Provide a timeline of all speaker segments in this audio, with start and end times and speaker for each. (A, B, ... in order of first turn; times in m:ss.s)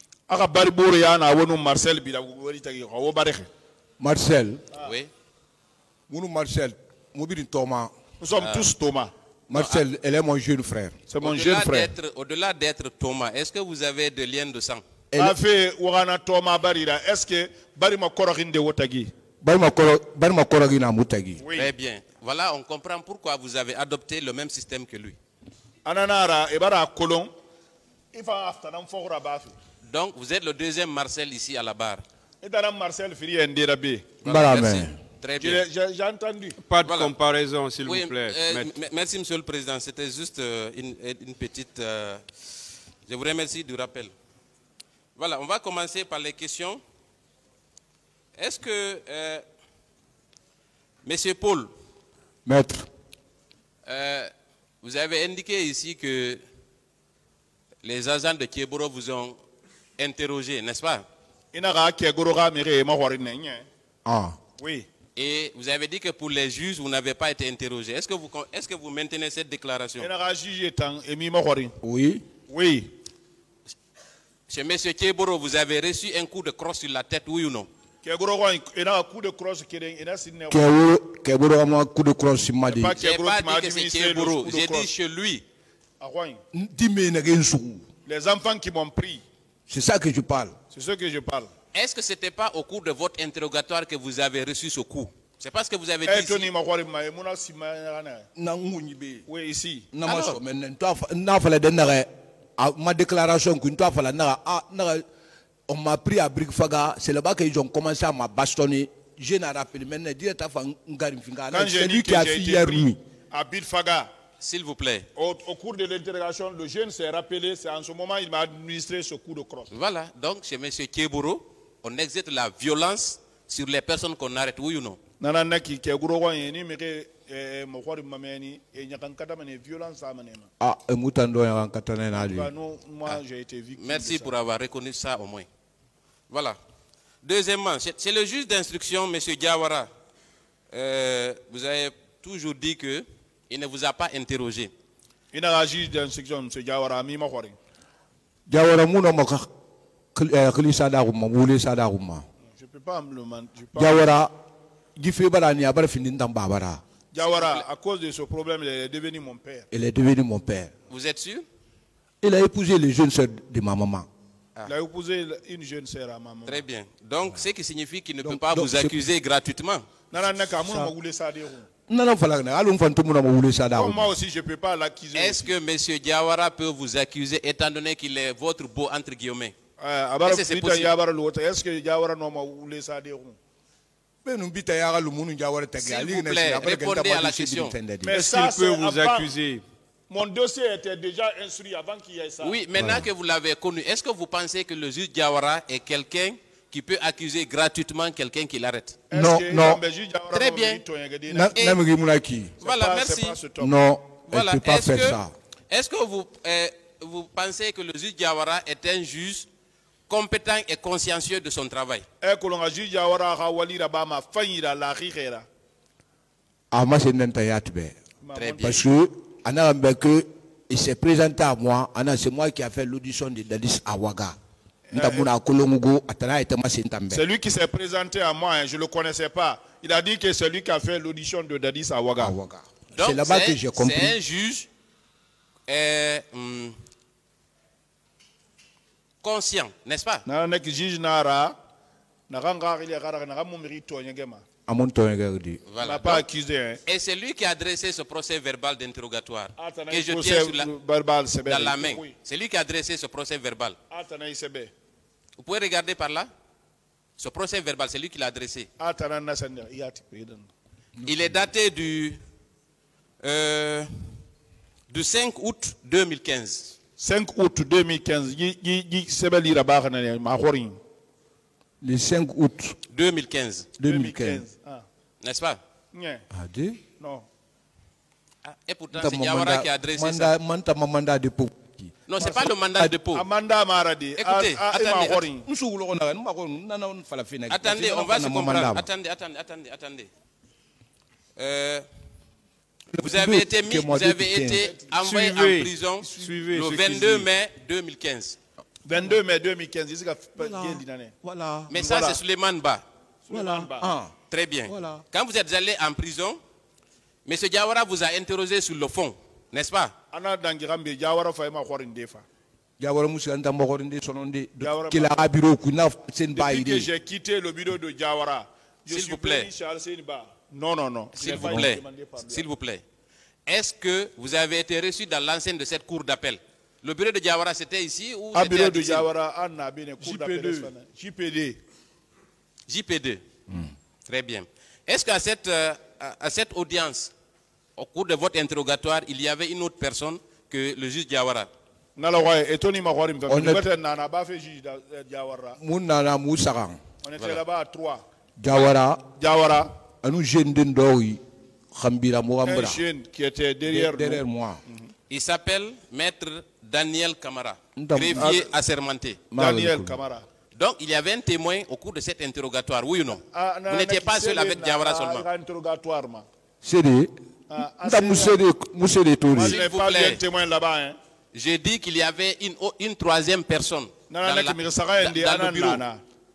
0:00.3-0:03.5 A
0:04.0-0:04.6 B
0:04.8-0:05.1 C
0:06.1-0:07.9 B
0:08.2-0:09.1 A
0:08.4-0:08.7 C
0:09.5-0:11.0 B
0:09.5-0:09.8 C
0:11.1-0:11.9 A
0:11.2-0:14.8 C
0:15.1-0:15.4 B
0:15.2-0:19.1 A
0:19.4-0:21.4 B
0:21.4-0:21.7 A
0:21.5-0:25.2 C
0:25.8-0:27.3 A
0:28.1-0:29.5 A
0:29.8-0:32.0 C
0:32.4-0:34.1 A
0:34.2-0:35.6 C
0:34.2-0:35.0 B
0:35.4-0:36.6 A
0:36.6-0:38.7 D
0:36.8-0:37.1 C
0:37.8-0:42.2 C
0:43.0-0:44.1 C
0:45.2-0:46.8 C
0:48.4-0:49.4 C
0:51.0-0:51.7 C
0:52.4-0:52.9 B
0:53.8-0:54.3 C
0:54.8-0:56.4 C
0:57.8-0:59.4 C
1:00.0-1:01.0 C
1:01.5-1:03.6 A
1:04.0-1:04.4 B
1:04.6-1:04.9 A
1:05.1-1:10.1 C
1:10.0-1:11.7 A
1:11.8-1:12.2 B
1:12.5-1:12.9 A
1:14.5-1:17.7 C
1:18.0-1:20.7 A
1:20.5-1:22.9 B
1:22.6-1:24.9 A
1:23.0-1:25.4 C
1:26.0-1:26.4 A
1:26.5-1:27.8 B
1:28.0-1:29.2 A
1:29.7-1:30.6 B
1:30.7-1:31.5 A
1:31.7-1:36.5 C
1:36.0-1:38.3 A
1:38.4-1:39.2 B
1:39.3-1:39.9 A
1:39.9-1:45.0 B
1:40.0-1:40.4 C
1:45.7-1:53.0 B
1:51.5-1:54.1 A
1:54.4-1:55.0 C
1:55.2-1:59.7 A
1:59.7-2:05.0 C
2:05.2-2:10.5 A
2:10.6-2:12.5 B
2:12.1-2:14.3 A
2:13.8-2:15.5 C
2:16.3-2:16.6 C
2:17.2-2:19.9 C
2:20.7-2:24.7 C
2:25.3-2:27.6 A
2:28.5-2:29.5 B
2:30.1-2:32.2 B
2:32.5-2:34.1 A
2:33.8-2:34.3 B
2:35.0-2:36.8 B
2:37.1-2:39.7 A
2:37.2-2:37.6 C
2:39.7-2:40.7 B
2:40.9-2:41.4 C
2:42.2-2:44.1 B
2:44.7-2:46.6 A
2:46.4-2:49.9 C
2:48.2-2:48.9 B
2:50.1-2:51.7 A
2:50.6-2:50.9 B
2:51.9-2:54.1 B
2:53.7-2:55.5 A
2:55.1-2:59.5 C
2:59.8-3:03.4 A
3:00.2-3:00.9 C
3:04.2-3:08.1 B
3:05.8-3:07.7 C
3:08.0-3:09.3 A
3:08.1-3:09.6 D
3:10.1-3:12.6 A
3:12.4-3:19.0 C
3:12.8-3:13.0 B
3:19.1-3:21.6 A
3:19.1-3:19.8 B
3:20.3-3:20.8 C
3:21.3-3:22.5 B
3:22.6-3:23.7 A
3:22.6-3:23.4 C
3:23.6-3:25.3 B
3:24.3-3:29.5 C
3:30.1-3:32.0 C
3:32.2-3:35.4 A
3:36.7-3:37.9 B
3:38.2-3:38.8 A
3:38.3-3:38.8 C
3:38.6-3:44.4 B
3:44.9-3:45.3 A
3:44.9-3:47.2 B
3:47.1-3:52.3 A
3:52.2-3:54.1 B
3:52.9-3:54.7 C
3:55.7-3:56.8 C
3:59.2-4:00.2 C
4:00.2-4:01.6 A
4:02.3-4:04.4 A
4:04.7-4:05.6 B
4:05.7-4:06.2 C
4:05.8-4:06.8 A
4:06.8-4:10.7 C
4:09.6-4:12.1 A
4:11.4-4:13.8 C
4:13.9-4:14.7 A
4:15.4-4:16.3 C
4:17.2-4:18.7 C
4:18.8-4:20.5 A
4:21.0-4:22.2 C
4:23.2-4:24.1 C
4:24.9-4:26.7 C
4:27.0-4:30.8 A
4:31.8-4:32.8 B
4:32.9-4:33.7 C
4:33.8-4:34.4 B
4:33.8-4:34.8 A
4:35.2-4:35.6 C
4:35.9-4:36.2 A
4:36.3-4:36.8 B
4:37.0-4:37.2 A
4:38.4-4:40.3 C
4:38.9-4:42.9 B
4:42.0-4:43.2 C
4:43.1-4:45.5 A
4:44.2-4:45.2 C
4:45.4-4:48.9 B
4:47.5-4:50.1 C
4:51.4-4:51.8 C
4:52.9-4:54.7 B
4:53.0-4:58.4 C
4:54.9-4:57.3 D
4:58.8-5:01.1 A
5:00.4-5:01.7 B
5:01.7-5:02.2 A
5:01.7-5:02.8 C
5:03.3-5:03.9 A
5:03.3-5:04.1 B
5:04.3-5:06.4 C
5:04.7-5:05.0 B
5:07.2-5:09.9 C
5:10.1-5:12.2 A
5:12.8-5:16.9 B
5:14.6-5:15.2 A
5:16.3-5:22.4 A
5:18.9-5:19.5 C
5:21.2-5:22.8 C
5:21.2-5:21.7 B
5:23.5-5:29.1 C
5:28.3-5:31.6 A
5:30.0-5:30.7 D
5:32.7-5:33.2 C
5:34.1-5:37.1 C
5:37.8-5:41.5 C
5:42.0-5:45.6 A
5:43.3-5:43.6 B
5:45.6-5:46.8 B
5:47.0-5:48.0 A
5:48.4-5:49.0 B
5:49.2-5:49.7 A
5:50.0-5:52.8 B
5:52.4-5:54.9 A
5:53.7-5:54.6 B
5:55.1-5:59.2 C
5:57.8-5:58.3 B
5:58.1-5:58.5 A
5:59.3-6:00.0 B
5:59.3-6:00.2 A
6:00.6-6:05.2 C
6:03.2-6:06.2 A
6:06.6-6:07.1 B
6:07.5-6:08.4 A
6:07.8-6:09.6 B
6:09.3-6:11.0 A
6:09.4-6:10.2 C
6:11.3-6:15.8 C
6:14.1-6:16.0 A